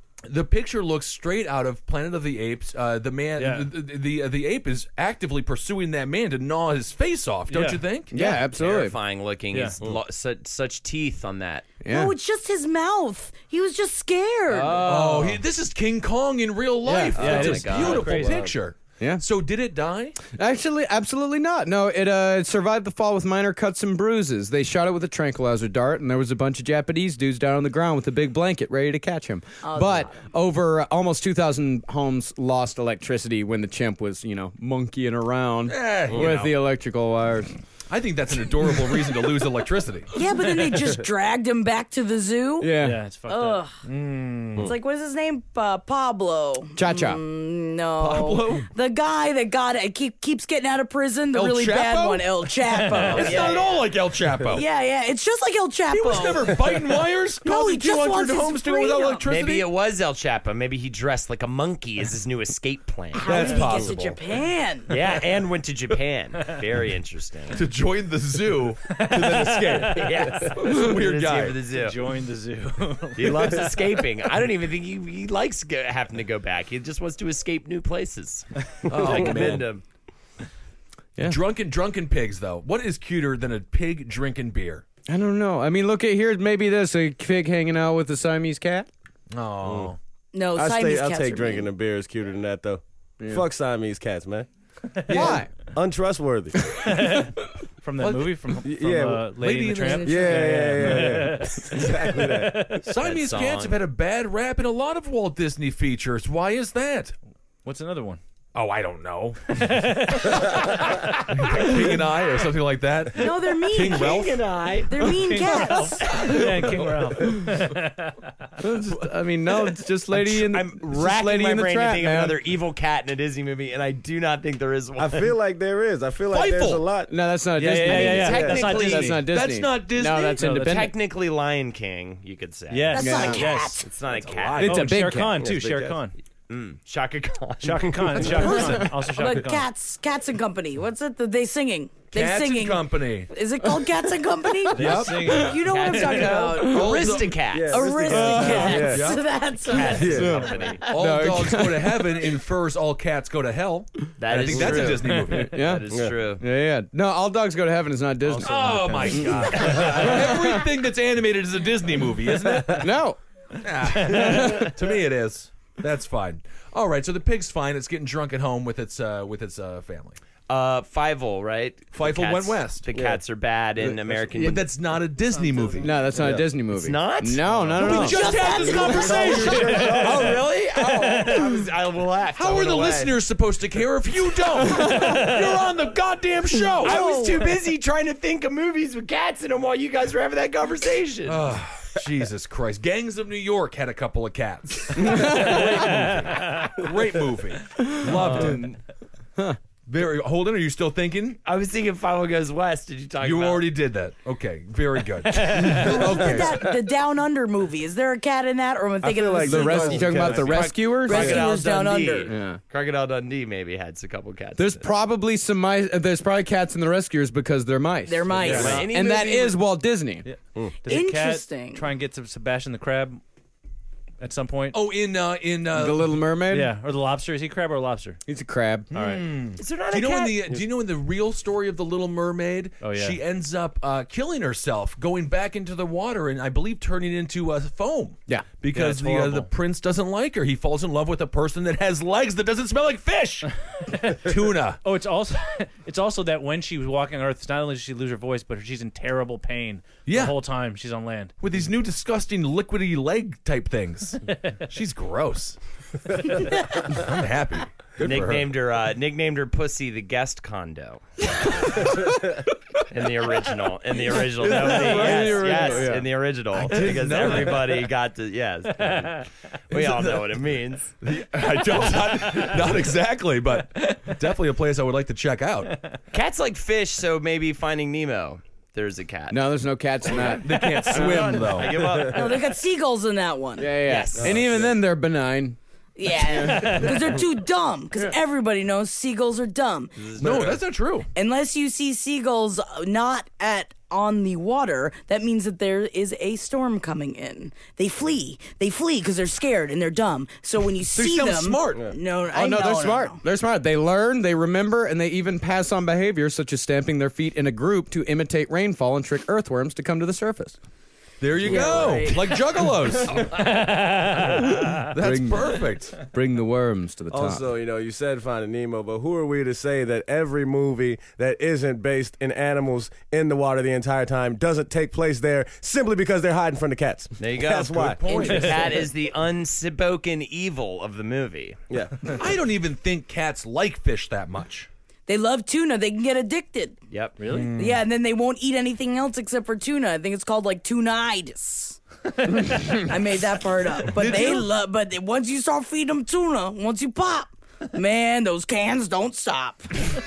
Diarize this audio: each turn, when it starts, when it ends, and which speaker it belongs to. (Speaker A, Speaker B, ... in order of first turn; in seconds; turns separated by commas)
Speaker A: 0.2-8.1, Speaker B: 3.4-3.7, Speaker B: 7.5-8.0, Speaker C: 8.1-8.9, Speaker D: 8.2-11.7, Speaker B: 9.5-9.8, Speaker C: 11.8-12.1, Speaker E: 11.9-15.1, Speaker C: 14.5-15.4, Speaker A: 14.8-20.2, Speaker C: 16.8-17.2, Speaker B: 17.1-18.5, Speaker D: 17.1-18.4, Speaker C: 20.2-37.5, Speaker E: 29.6-30.2, Speaker A: 35.7-36.6, Speaker A: 37.9-40.1, Speaker E: 40.1-42.7, Speaker C: 42.6-43.0, Speaker B: 42.7-43.6, Speaker E: 43.3-43.7, Speaker A: 43.8-44.7, Speaker E: 44.6-53.7, Speaker C: 46.7-47.2, Speaker A: 48.0-48.7, Speaker A: 51.3-54.6, Speaker B: 52.8-53.3, Speaker D: 53.1-53.8, Speaker E: 54.5-56.7, Speaker A: 55.9-59.7, Speaker E: 57.4-59.3, Speaker D: 59.2-63.9, Speaker E: 63.1-65.0, Speaker A: 63.2-64.2, Speaker D: 64.9-67.6, Speaker A: 67.5-71.6, Speaker B: 68.8-70.6, Speaker D: 69.8-72.0, Speaker B: 71.7-73.8, Speaker D: 73.1-79.8, Speaker A: 78.8-79.7, Speaker F: 79.0-79.5, Speaker A: 81.2-84.8, Speaker C: 85.1-88.9, Speaker A: 89.3-90.0, Speaker F: 89.6-89.9, Speaker E: 90.3-91.7, Speaker F: 90.5-94.5, Speaker C: 93.2-93.5, Speaker B: 95.0-95.4, Speaker C: 95.1-95.5, Speaker A: 95.1-95.4, Speaker F: 95.2-96.7, Speaker B: 96.8-102.9, Speaker A: 98.0-98.4, Speaker F: 98.7-99.2, Speaker A: 99.3-100.1, Speaker E: 99.8-100.7, Speaker F: 100.0-102.7, Speaker A: 102.8-107.1, Speaker D: 103.0-103.8, Speaker B: 107.6-108.2, Speaker A: 108.5-114.5, Speaker B: 109.5-111.8, Speaker E: 113.1-114.3, Speaker D: 113.7-115.7, Speaker E: 114.9-116.4, Speaker B: 115.1-118.5, Speaker A: 116.0-116.8, Speaker C: 118.6-122.4, Speaker D: 120.2-125.3, Speaker F: 125.0-127.1, Speaker A: 126.3-126.9, Speaker C: 127.1-130.9, Speaker B: 127.5-129.3, Speaker D: 127.8-129.2, Speaker F: 128.2-128.8, Speaker A: 129.2-130.5, Speaker B: 130.3-130.9, Speaker D: 130.5-133.1, Speaker B: 132.7-133.9, Speaker E: 132.9-133.9, Speaker C: 133.0-133.5, Speaker D: 133.8-134.7, Speaker A: 134.0-135.1, Speaker C: 134.6-135.4, Speaker B: 134.6-136.2, Speaker F: 135.4-136.0, Speaker D: 136.5-138.5, Speaker B: 137.6-139.7, Speaker E: 138.4-150.8, Speaker A: 138.4-138.8, Speaker A: 142.1-143.3, Speaker C: 144.5-145.5, Speaker A: 144.7-145.3, Speaker B: 144.8-146.4, Speaker D: 144.9-147.9, Speaker C: 146.4-147.0, Speaker A: 146.7-147.4, Speaker F: 147.4-149.2, Speaker C: 148.1-149.0, Speaker A: 148.7-149.3, Speaker D: 149.6-150.9, Speaker F: 149.7-150.5, Speaker C: 150.1-152.3, Speaker A: 150.8-155.7, Speaker D: 154.2-156.4, Speaker F: 154.5-154.9, Speaker C: 155.2-160.6, Speaker F: 155.9-156.2, Speaker B: 158.3-160.3, Speaker A: 158.4-162.9, Speaker C: 162.7-163.2, Speaker A: 163.6-170.2, Speaker C: 164.0-164.7, Speaker B: 164.1-164.4, Speaker D: 170.5-174.7, Speaker A: 171.9-172.9, Speaker F: 172.9-173.2, Speaker C: 173.8-174.6, Speaker A: 174.3-175.9, Speaker C: 175.8-178.2, Speaker D: 176.2-178.2, Speaker A: 177.7-180.4, Speaker E: 177.8-179.8, Speaker F: 178.7-180.5, Speaker B: 179.3-180.3, Speaker D: 179.8-183.2, Speaker B: 180.9-181.4, Speaker A: 182.3-187.0, Speaker E: 186.7-187.5, Speaker D: 186.8-191.6, Speaker A: 191.2-198.8, Speaker C: 195.0-195.8, Speaker B: 195.8-196.7, Speaker B: 198.2-198.6, Speaker A: 199.8-201.4, Speaker D: 201.4-203.7, Speaker A: 203.2-206.7, Speaker B: 205.3-206.0, Speaker E: 205.7-210.2, Speaker F: 205.8-206.6, Speaker F: 209.0-211.4, Speaker C: 209.4-211.4, Speaker D: 210.2-214.8, Speaker E: 211.0-212.3, Speaker C: 212.2-212.6, Speaker C: 214.6-220.2, Speaker E: 218.1-218.9, Speaker D: 218.4-219.6, Speaker B: 218.4-218.8, Speaker B: 220.2-223.2, Speaker E: 220.8-221.8, Speaker B: 224.2-224.8, Speaker A: 224.7-226.1, Speaker C: 225.7-226.7, Speaker B: 226.5-228.2, Speaker C: 228.3-228.9, Speaker B: 228.9-229.4, Speaker A: 228.9-243.5, Speaker D: 229.6-230.6, Speaker B: 232.8-233.2, Speaker B: 238.7-239.5, Speaker A: 244.1-244.8, Speaker B: 244.8-251.3, Speaker A: 250.0-250.4, Speaker A: 251.4-255.6, Speaker A: 256.2-258.6, Speaker D: 258.0-261.0, Speaker A: 261.4-262.0, Speaker D: 261.6-261.9, Speaker D: 262.9-270.9, Speaker C: 264.4-266.1, Speaker A: 264.8-265.3, Speaker A: 266.5-267.9, Speaker B: 268.9-269.1, Speaker A: 269.7-270.4, Speaker A: 271.0-275.8, Speaker B: 272.3-272.7, Speaker D: 276.1-279.4, Speaker C: 279.3-281.1, Speaker D: 280.0-282.5, Speaker A: 280.4-282.0, Speaker F: 281.7-282.3, Speaker E: 282.1-283.7, Speaker C: 283.6-287.1, Speaker D: 283.8-284.4, Speaker F: 284.2-284.7, Speaker E: 285.9-289.9, Speaker D: 289.9-290.6, Speaker A: 290.2-291.1, Speaker E: 291.1-303.2, Speaker A: 300.9-301.9, Speaker C: 302.3-310.6, Speaker A: 311.2-313.5, Speaker E: 311.4-312.4, Speaker F: 311.5-311.9, Speaker B: 313.1-314.9, Speaker A: 314.9-315.9, Speaker C: 314.9-317.4, Speaker F: 317.1-328.3, Speaker D: 327.2-331.6, Speaker A: 327.7-328.8, Speaker B: 328.2-328.8, Speaker F: 331.7-332.2, Speaker A: 332.1-334.7, Speaker E: 335.1-336.8, Speaker D: 336.9-337.2, Speaker B: 337.2-337.6, Speaker A: 337.3-337.8, Speaker E: 337.5-349.8, Speaker A: 343.9-344.5